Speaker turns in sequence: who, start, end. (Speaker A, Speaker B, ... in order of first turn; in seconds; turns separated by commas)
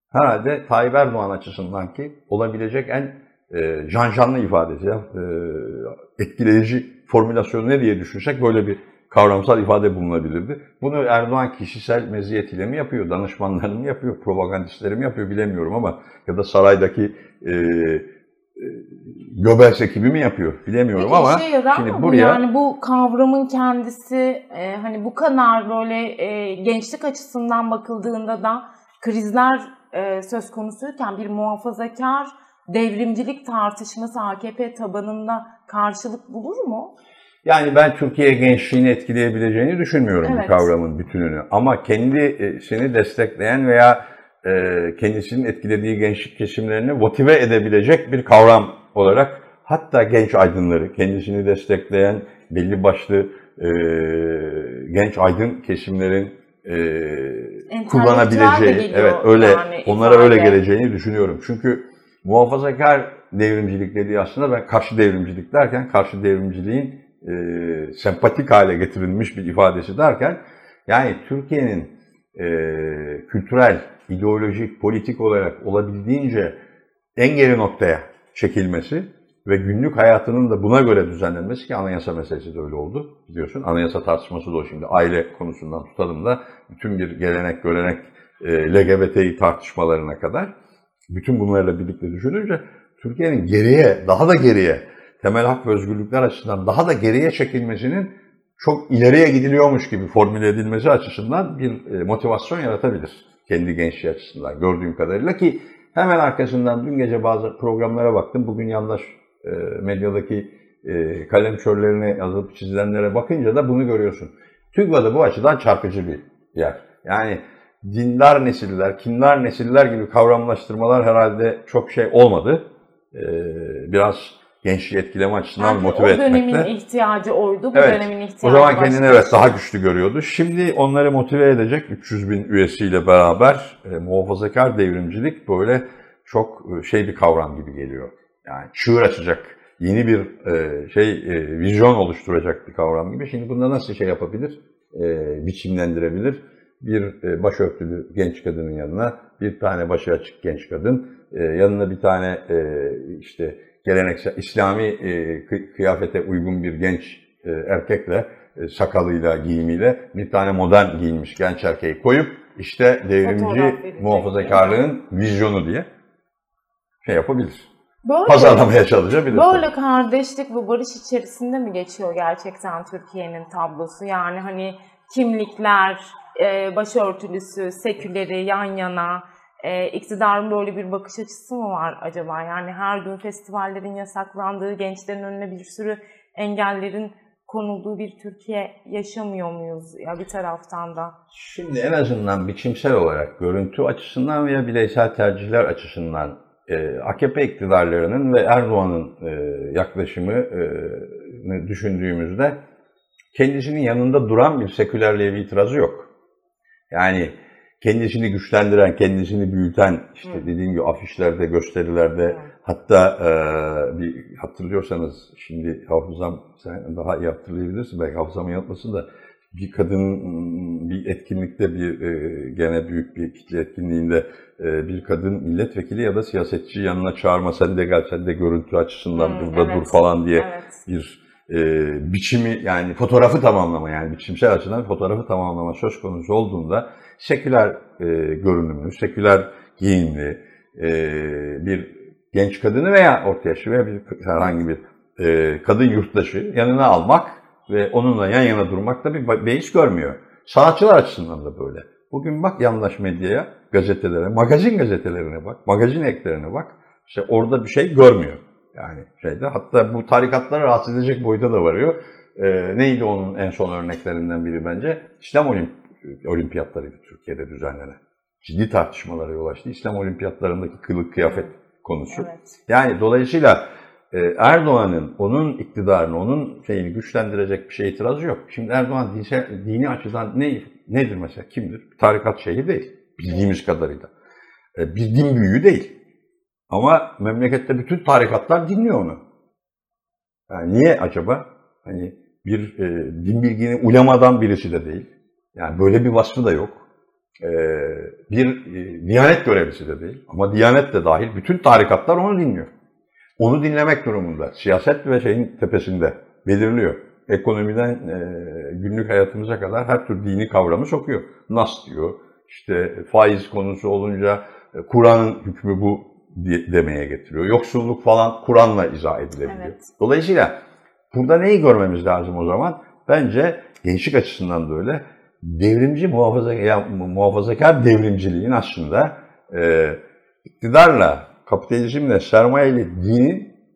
Speaker A: 0.1-22.4, Speaker B: 20.9-36.9, Speaker A: 37.4-76.5, Speaker B: 40.2-40.7, Speaker B: 57.7-60.6, Speaker A: 77.2-90.5, Speaker A: 91.1-126.7, Speaker B: 125.6-129.6, Speaker A: 127.7-165.9, Speaker B: 163.2-164.8, Speaker A: 167.0-167.7, Speaker B: 168.1-191.1, Speaker A: 168.2-169.7, Speaker A: 191.3-202.6, Speaker A: 203.3-206.1, Speaker A: 206.9-284.1, Speaker B: 229.1-230.8, Speaker B: 272.1-272.6, Speaker A: 284.7-285.9, Speaker A: 286.7-289.2, Speaker A: 290.5-296.9, Speaker A: 297.4-302.7, Speaker A: 303.4-320.5, Speaker B: 319.4-319.9, Speaker A: 321.1-330.0, Speaker A: 330.6-333.5